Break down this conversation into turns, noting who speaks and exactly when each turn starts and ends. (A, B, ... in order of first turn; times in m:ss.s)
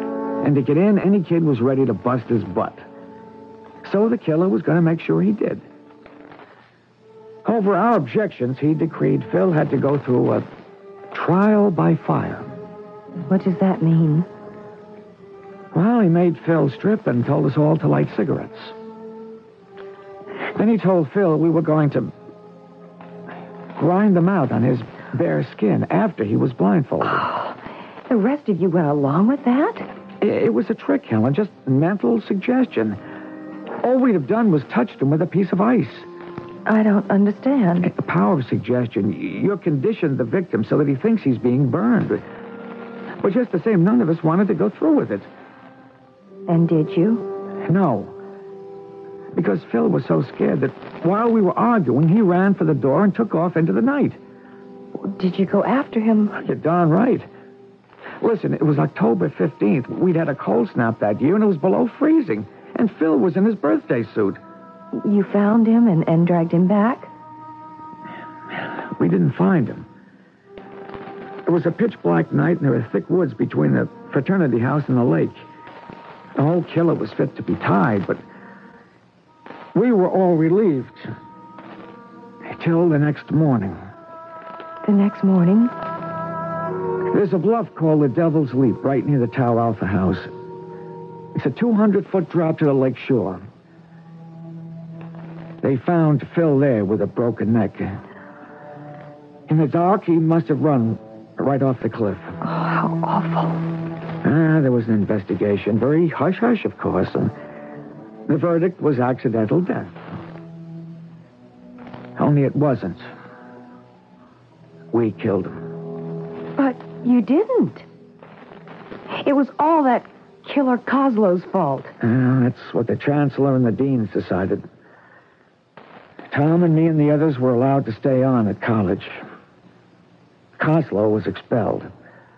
0:00.4-0:02.9 A
0:03.8-0:05.7 A
0:07.4-0:10.5 A
0:11.1-0:12.5 A
0:13.3-0:14.3 B
0:15.7-0:18.8 A
0:20.5-0:22.1 A
0:23.8-0:27.3 A
0:27.1-0:29.9 B
0:30.2-0:33.0 A
0:33.8-0:36.1 A
0:36.6-0:37.9 B
0:37.8-0:42.2 A
0:43.2-0:45.3 A
0:46.5-0:47.2 B
0:47.6-0:48.1 A
0:49.3-0:54.2 A
0:55.0-0:56.4 B
0:56.3-0:57.3 A
0:58.2-1:04.4 A
1:04.9-1:07.1 B
1:08.9-1:09.9 A
1:11.4-1:15.4 A
1:16.4-1:18.2 A
1:19.7-1:21.1 A
1:22.4-1:23.8 A
1:24.8-1:25.7 B
1:27.1-1:30.3 A
1:31.3-1:33.4 A
1:35.6-1:38.0 A
1:39.5-1:42.3 A
1:42.4-1:43.6 B
1:44.2-1:47.3 A
1:48.3-1:49.9 A
1:52.2-1:53.0 A
1:54.9-1:55.6 A
1:56.6-1:57.9 B
1:59.1-2:01.9 B
2:02.0-2:04.6 A
2:06.3-2:09.2 A
2:10.6-2:11.9 A